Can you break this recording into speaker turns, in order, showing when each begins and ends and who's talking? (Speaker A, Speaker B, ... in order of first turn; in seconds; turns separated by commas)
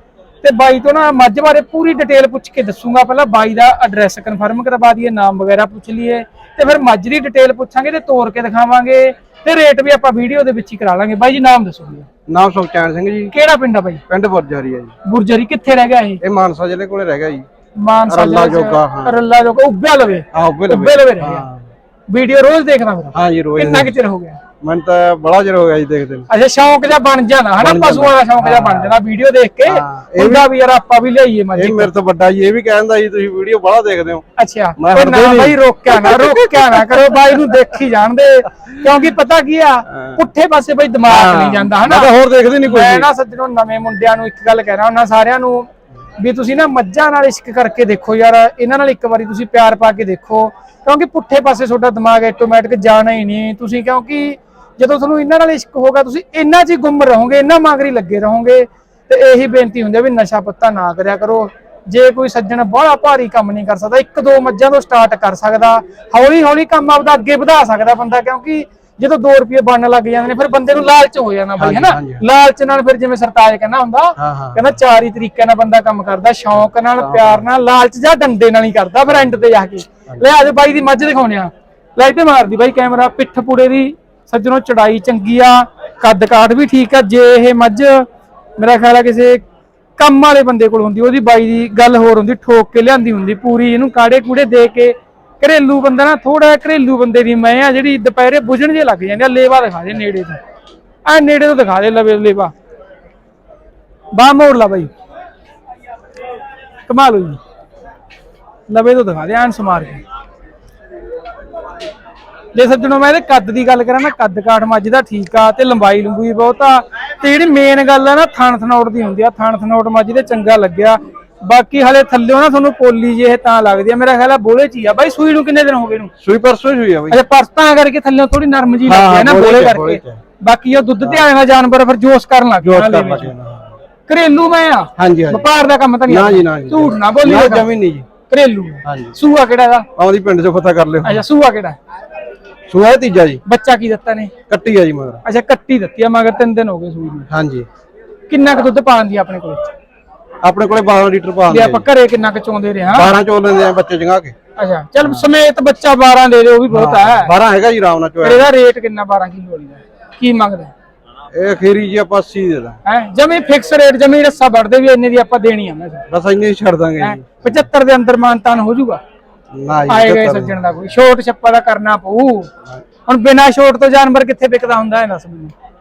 Speaker A: 0.4-12.1, Speaker B: 12.3-13.3, Speaker A: 13.3-14.0, Speaker B: 14.1-14.9, Speaker A: 15.1-16.2, Speaker B: 16.2-17.5, Speaker A: 17.8-21.5, Speaker B: 18.1-19.2, Speaker B: 20.3-21.7, Speaker A: 22.1-24.4, Speaker B: 23.1-23.9, Speaker B: 24.6-26.3, Speaker A: 26.3-31.9, Speaker B: 27.6-28.9, Speaker B: 29.7-30.4, Speaker B: 31.6-34.2, Speaker A: 34.4-42.1, Speaker B: 34.8-36.3, Speaker B: 41.1-43.1, Speaker A: 42.6-88.1, Speaker B: 71.6-72.2, Speaker B: 74.2-74.6, Speaker B: 77.0-77.4, Speaker A: 88.6-89.4, Speaker A: 90.0-100.4, Speaker A: 101.1-102.5, Speaker A: 104.1-104.9, Speaker A: 106.9-107.4, Speaker A: 108.7-110.0, Speaker A: 112.5-126.1, Speaker B: 126.2-127.2, Speaker A: 127.1-133.3, Speaker B: 128.9-130.2, Speaker B: 132.6-133.8, Speaker A: 134.1-137.7, Speaker B: 135.0-135.4, Speaker B: 136.1-138.1, Speaker A: 138.3-139.9, Speaker B: 138.8-139.1, Speaker B: 140.0-141.2, Speaker A: 141.0-141.8, Speaker B: 142.7-143.4, Speaker A: 143.4-144.3, Speaker B: 144.5-145.2, Speaker A: 145.2-147.3, Speaker B: 147.3-147.7, Speaker A: 148.3-149.7, Speaker B: 150.4-151.9, Speaker A: 151.5-153.1, Speaker B: 152.9-154.3, Speaker A: 154.6-157.3, Speaker B: 156.7-158.5, Speaker A: 158.2-160.7, Speaker B: 161.3-162.8, Speaker A: 162.8-166.1, Speaker B: 166.1-167.2, Speaker A: 167.0-169.0, Speaker B: 169.5-170.8, Speaker A: 169.9-172.5, Speaker A: 173.1-175.5